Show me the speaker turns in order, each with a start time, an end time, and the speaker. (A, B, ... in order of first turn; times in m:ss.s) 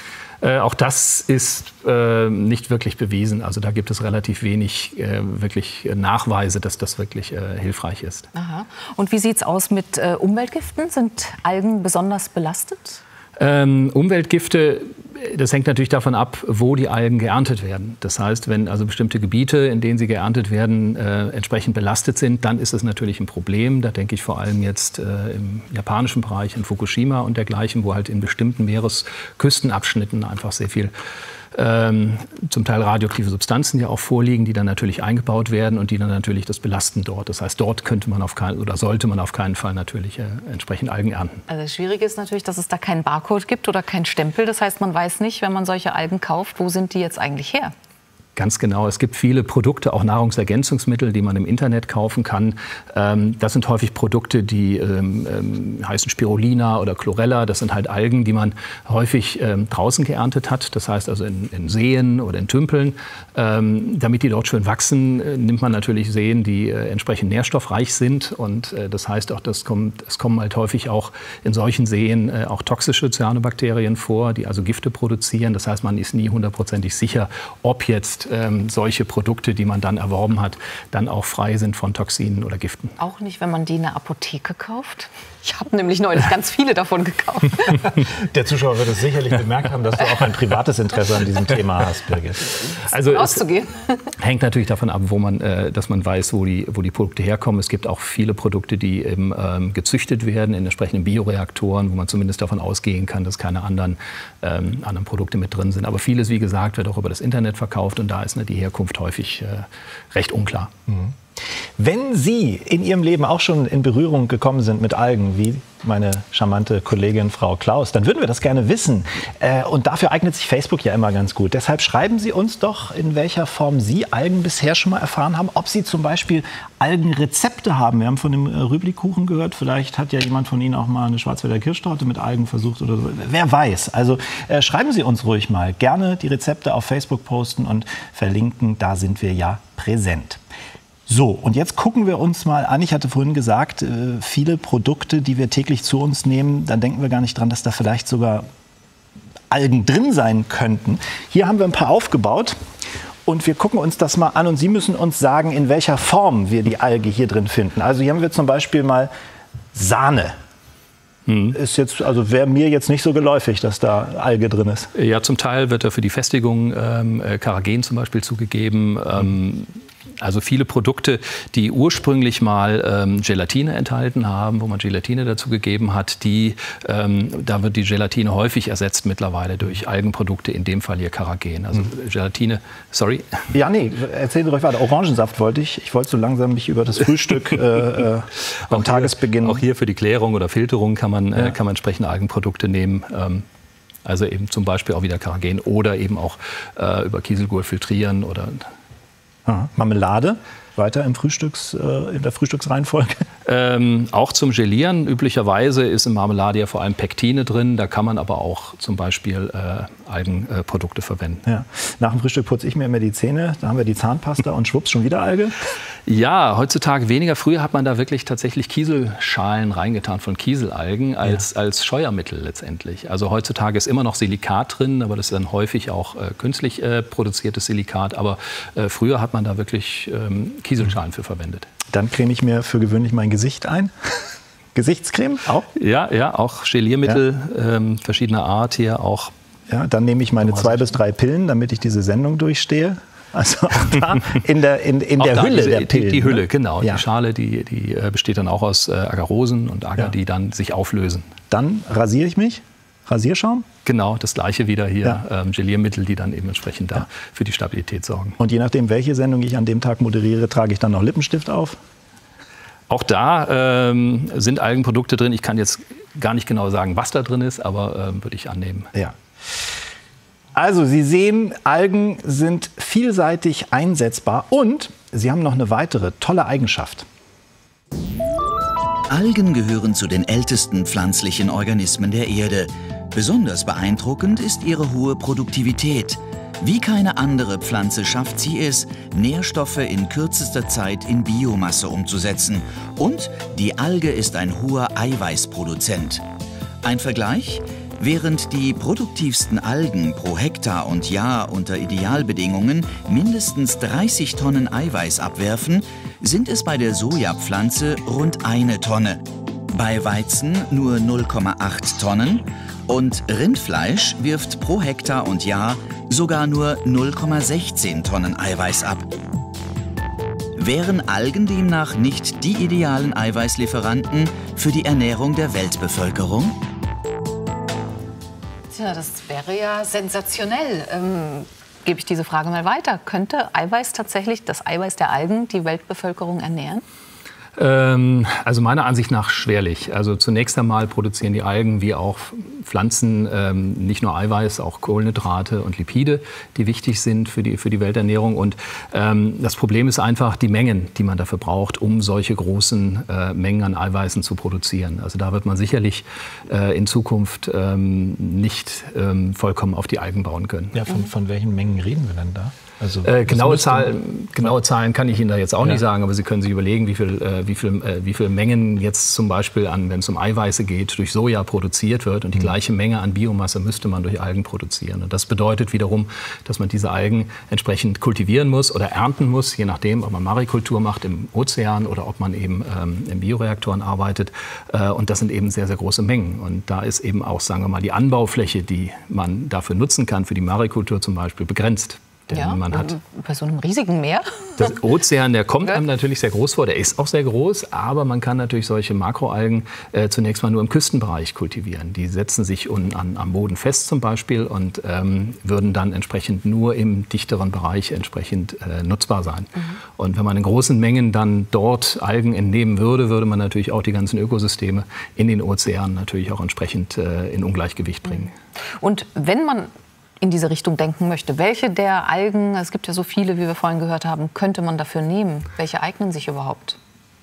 0:00.4-0:08.3 A
0:08.3-0:13.0 B
0:13.4-0:30.9 A
0:31.5-0:41.4 A
0:41.5-0:47.7 B
0:48.4-1:23.0 A
1:23.0-1:27.8 B
1:28.0-1:32.6 C
1:32.8-1:33.4 A
1:33.1-1:34.1 B
1:34.2-1:50.7 A
1:50.9-1:51.2 C
1:51.8-2:20.4 C
2:21.1-2:28.5 C
2:29.5-2:32.6 C
2:33.2-2:39.1 C
2:39.7-2:40.4 C
2:41.3-2:41.6 A
2:41.5-2:44.9 C
2:45.0-3:03.4 A
3:03.5-3:09.6 C
3:08.7-3:13.4 A
3:14.0-3:18.7 A
3:19.5-3:23.2 C
3:23.4-3:31.4 A
3:31.5-3:35.6 C
3:36.1-3:51.7 A
3:51.9-3:55.7 C
3:55.8-3:59.3 A
3:59.7-4:07.0 C
4:00.4-4:01.0 A
4:05.2-4:11.3 A
4:11.5-4:13.7 C
4:13.8-4:18.4 A
4:18.4-4:21.8 C
4:22.9-4:28.9 A
4:30.6-4:37.1 C
4:39.1-4:56.2 D
4:56.8-5:09.2 D
5:09.7-5:19.1 D
5:20.6-5:26.6 D
5:28.7-5:36.8 B
5:37.6-6:00.9 A
6:00.7-6:04.5 C
6:03.0-6:33.0 A
6:32.3-6:34.7 B
6:34.6-6:58.3 A
6:58.8-7:06.8 B